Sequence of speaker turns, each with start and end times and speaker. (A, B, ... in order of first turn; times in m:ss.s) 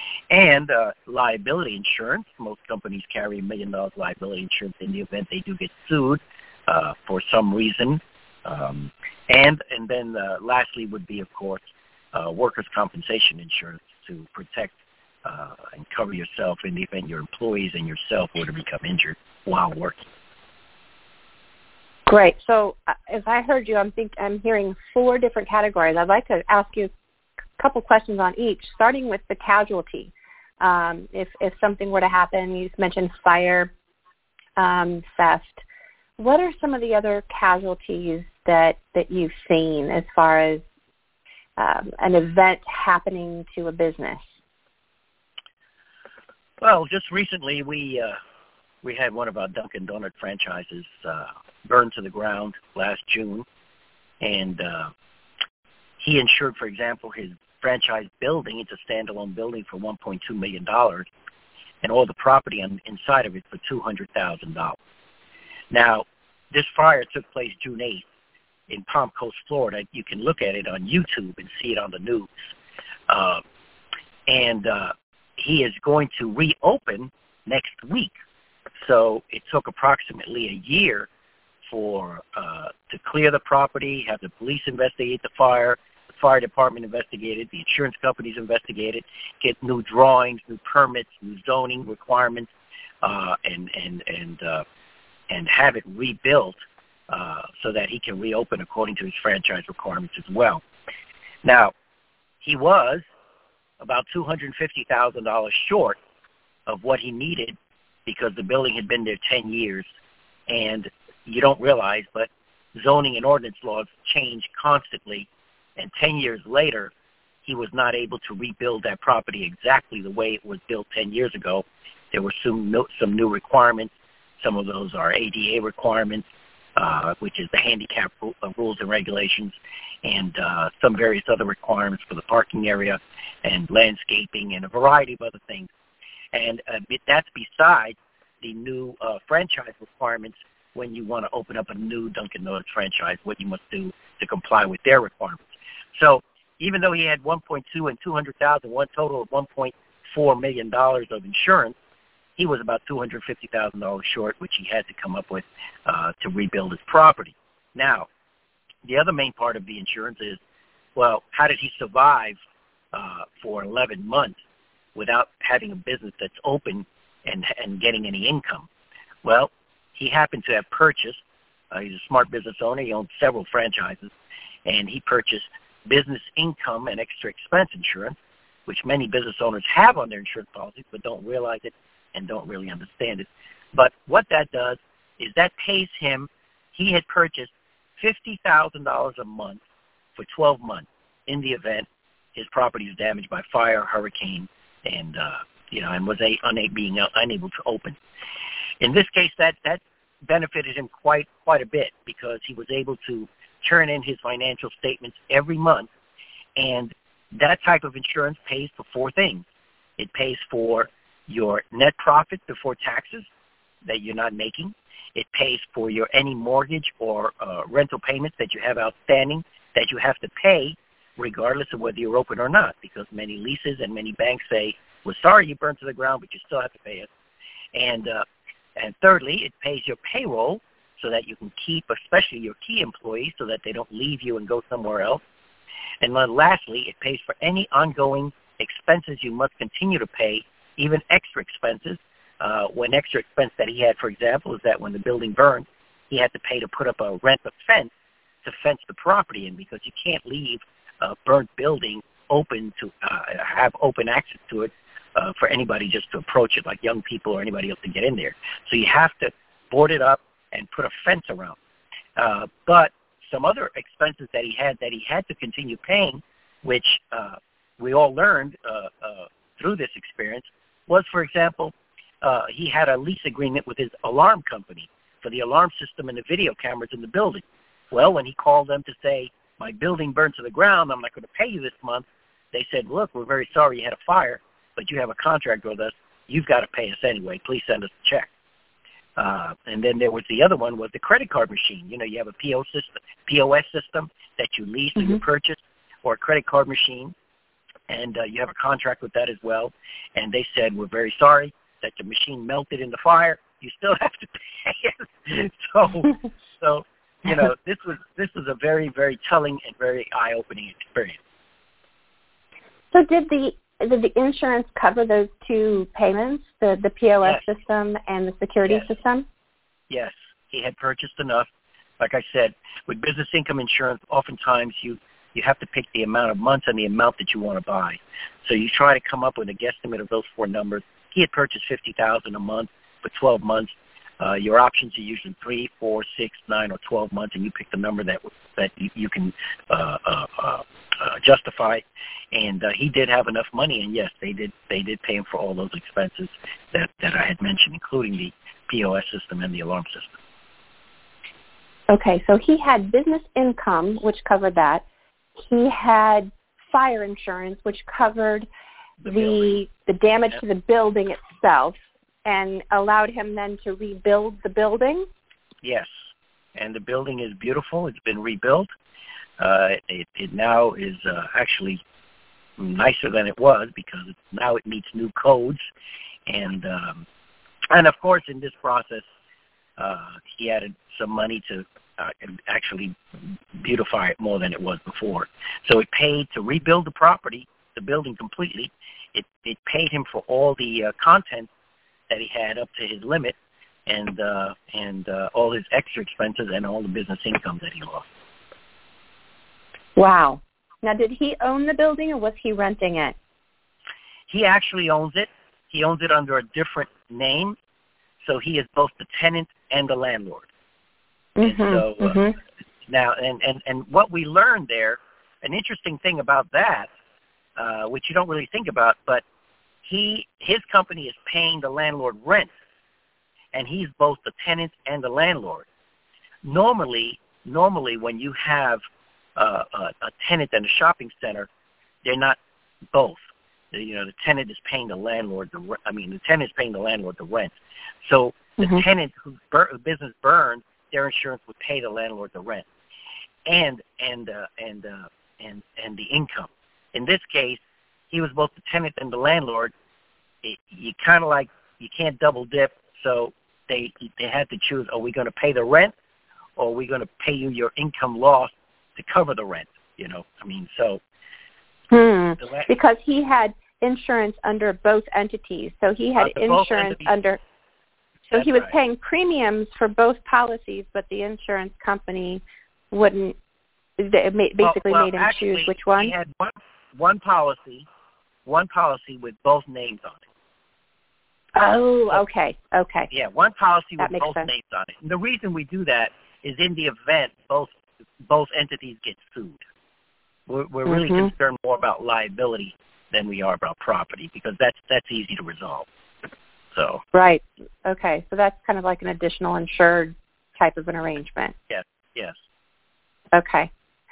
0:00.3-0:20.1 A
0:22.1-0:26.9 B
0:27.6-0:33.7 B
0:34.6-0:35.6 B
0:36.2-0:40.6 B
0:41.6-0:44.2 B
0:46.6-0:48.2 A
0:48.8-0:53.4 A
0:54.2-0:54.9 A
0:56.0-1:01.1 A
1:01.8-1:04.8 A
1:05.7-1:08.1 A
1:08.7-1:12.5 A
1:13.1-1:13.4 A
1:14.3-1:18.1 A
1:18.8-1:21.1 A
1:21.7-1:32.5 A
1:33.0-1:34.6 A
1:35.3-1:36.6 A
1:37.1-1:40.6 A
1:41.4-1:41.7 A
1:42.4-1:43.0 A
1:43.8-1:46.0 A
1:46.7-1:47.5 A
1:48.0-1:49.9 A
1:50.5-1:56.9 A
1:57.4-2:15.7 A
2:16.3-2:31.8 A
2:32.4-2:38.1 A
2:38.8-2:40.4 A
2:40.9-2:42.4 A
2:42.9-2:44.4 A
2:44.9-2:48.7 A
2:49.2-2:51.2 A
2:51.7-2:54.1 A
2:54.6-2:58.1 A
2:58.6-3:09.6 A
3:10.2-3:18.0 A
3:18.8-3:25.9 A
3:26.6-3:29.4 A
3:30.0-3:33.3 A
3:33.8-3:47.1 A
3:47.7-3:55.2 A
3:56.0-4:07.9 A
4:08.4-4:21.6 A
4:22.2-4:48.3 A
4:49.2-4:57.1 A
4:57.9-5:11.2 A
5:12.9-5:19.2 B
5:19.9-5:21.5 A
5:22.0-5:50.2 A
5:51.9-5:54.8 B
5:55.4-5:58.5 B
5:59.0-5:59.5 A
5:59.0-6:05.1 B
6:05.6-6:05.9 A
6:06.5-6:08.7 A
6:09.4-6:11.8 A
6:12.6-6:15.6 A
6:16.3-6:17.0 A
6:17.7-6:19.0 A
6:19.8-6:31.5 A
6:32.1-6:33.3 A
6:33.9-6:38.1 A
6:40.0-6:43.2 B
6:44.3-6:47.6 A
6:48.2-6:50.5 A
6:51.4-6:52.4 B
6:51.4-6:52.2 A
6:52.9-6:56.9 A
6:57.6-6:59.2 A
6:59.8-7:02.5 A
7:03.5-7:05.6 A
7:06.4-7:08.8 A
7:09.4-7:11.5 A
7:12.0-7:12.4 A
7:12.9-7:13.2 A
7:13.7-7:22.7 A
7:18.6-7:18.8 B
7:23.4-7:27.6 A
7:28.1-7:29.7 A
7:30.4-7:35.9 A
7:36.6-7:41.0 A
7:41.9-7:47.4 B
7:42.4-7:42.7 A
7:46.2-7:47.1 A
7:48.3-7:53.4 B
7:48.3-7:48.7 A
7:54.0-7:56.1 B
7:54.6-7:57.9 A
7:58.4-8:00.2 A
8:01.5-8:03.1 B
8:03.1-8:09.6 A
8:04.0-8:04.5 B
8:10.5-8:15.9 A
8:10.9-8:11.3 B
8:16.7-8:17.0 A
8:17.1-8:21.5 B
8:21.7-8:22.4 A
8:23.3-8:23.7 B